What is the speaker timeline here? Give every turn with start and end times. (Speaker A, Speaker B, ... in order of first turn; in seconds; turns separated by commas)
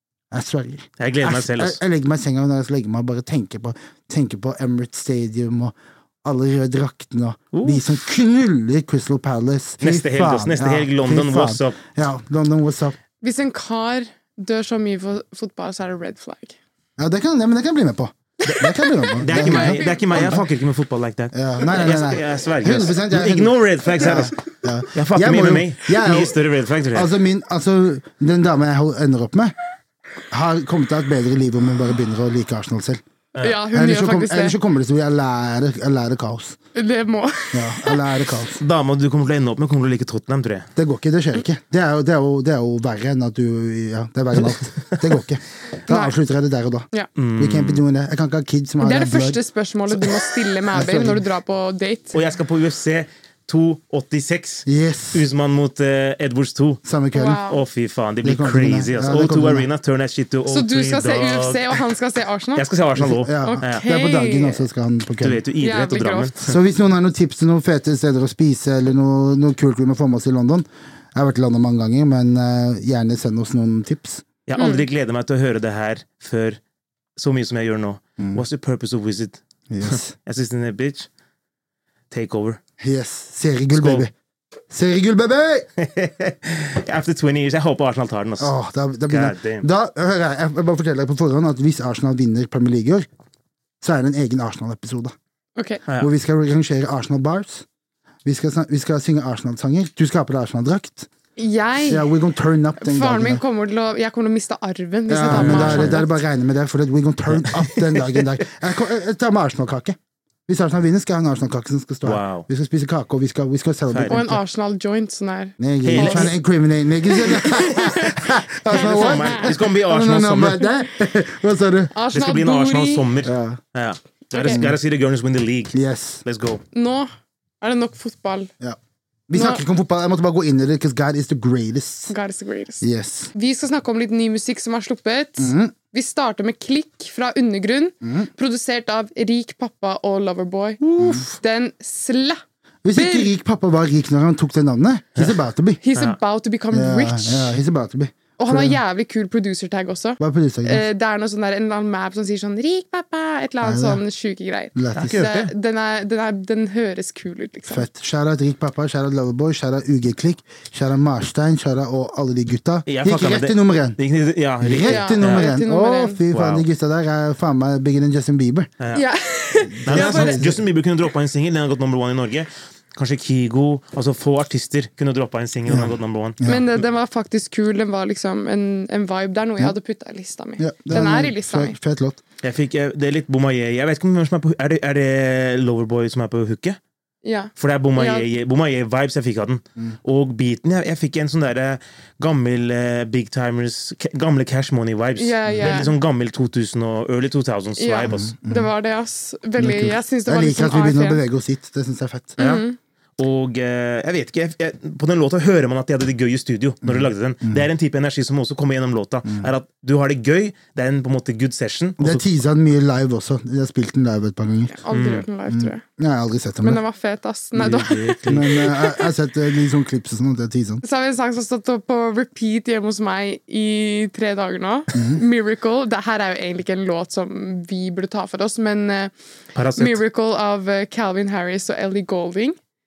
Speaker A: 0.3-13.0, Speaker B: 1.0-1.8, Speaker B: 7.5-7.8, Speaker B: 9.8-11.8, Speaker C: 13.2-16.6, Speaker A: 17.0-20.4, Speaker C: 18.4-20.4, Speaker B: 19.2-24.4, Speaker A: 21.3-26.4, Speaker B: 24.9-27.1, Speaker A: 26.9-29.5, Speaker A: 30.3-33.0, Speaker C: 33.4-34.6, Speaker A: 33.7-36.6, Speaker C: 36.7-38.0, Speaker A: 37.5-38.6, Speaker B: 38.6-40.7, Speaker A: 40.8-46.9, Speaker B: 44.4-45.1, Speaker C: 45.9-46.2, Speaker B: 47.1-47.8, Speaker A: 47.4-49.4, Speaker C: 48.8-52.2, Speaker A: 50.7-51.2, Speaker B: 52.1-56.8, Speaker A: 54.6-55.3, Speaker A: 56.8-57.4, Speaker C: 57.1-57.6, Speaker B: 57.4-61.8, Speaker A: 58.2-59.7, Speaker C: 60.5-62.7, Speaker B: 62.5-63.8, Speaker A: 63.0-65.4, Speaker C: 63.4-64.7, Speaker B: 65.2-66.6, Speaker C: 65.6-66.3, Speaker A: 66.4-74.2, Speaker B: 74.5-76.6, Speaker C: 74.6-74.8, Speaker B: 77.2-81.1, Speaker A: 79.7-80.1, Speaker B: 82.1-82.6, Speaker A: 82.8-84.1, Speaker B: 83.7-84.1, Speaker A: 84.7-85.7, Speaker B: 85.8-88.5, Speaker A: 88.4-93.1, Speaker B: 89.1-89.7, Speaker A: 93.8-95.1, Speaker C: 95.6-95.8, Speaker A: 96.0-97.6, Speaker A: 98.2-101.1, Speaker C: 101.4-102.1, Speaker A: 101.9-103.4, Speaker C: 102.8-106.1, Speaker A: 105.1-114.4, Speaker B: 105.3-106.0, Speaker B: 107.3-108.4, Speaker B: 112.0-112.5, Speaker B: 113.9-114.2, Speaker C: 114.1-116.3, Speaker A: 115.6-121.9, Speaker B: 115.8-116.3, Speaker C: 117.1-119.5, Speaker B: 118.7-120.7, Speaker C: 121.9-123.1, Speaker B: 122.1-126.6, Speaker A: 123.2-123.6, Speaker C: 124.3-124.6, Speaker A: 124.4-124.8, Speaker A: 125.7-126.2, Speaker C: 126.7-127.1, Speaker C: 127.6-128.5, Speaker A: 129.3-132.1, Speaker C: 129.3-129.6, Speaker C: 132.1-142.4, Speaker A: 132.8-133.3, Speaker A: 135.4-135.7, Speaker A: 138.0-138.3, Speaker B: 140.8-141.2, Speaker A: 141.0-141.3, Speaker A: 142.8-145.8, Speaker C: 142.9-143.3, Speaker C: 145.8-147.6, Speaker A: 146.7-148.8, Speaker C: 148.4-157.8, Speaker A: 150.2-150.8, Speaker A: 153.6-154.0, Speaker A: 154.7-155.1, Speaker B: 154.9-155.5, Speaker A: 157.7-164.0, Speaker B: 162.8-165.5, Speaker A: 164.6-168.7, Speaker C: 164.8-166.2, Speaker B: 166.3-166.7, Speaker C: 168.9-170.4, Speaker A: 169.7-170.6, Speaker B: 169.8-176.4, Speaker A: 175.7-176.7, Speaker C: 176.4-181.8, Speaker A: 180.6-182.2, Speaker B: 182.4-186.8, Speaker C: 187.2-188.3, Speaker B: 187.6-198.3, Speaker C: 195.2-195.9, Speaker A: 195.5-195.8, Speaker C: 197.8-201.2, Speaker A: 198.1-198.7, Speaker A: 199.6-202.4, Speaker B: 202.4-202.6, Speaker C: 202.4-202.8, Speaker B: 203.2-212.2, Speaker A: 206.8-207.7, Speaker A: 212.0-214.7, Speaker C: 214.7-215.8, Speaker B: 214.9-215.2, Speaker A: 215.5-216.8, Speaker C: 216.6-219.1, Speaker B: 217.6-218.5, Speaker A: 218.3-220.8, Speaker C: 220.8-229.1, Speaker A: 224.9-225.2, Speaker B: 229.5-230.0, Speaker C: 229.8-232.6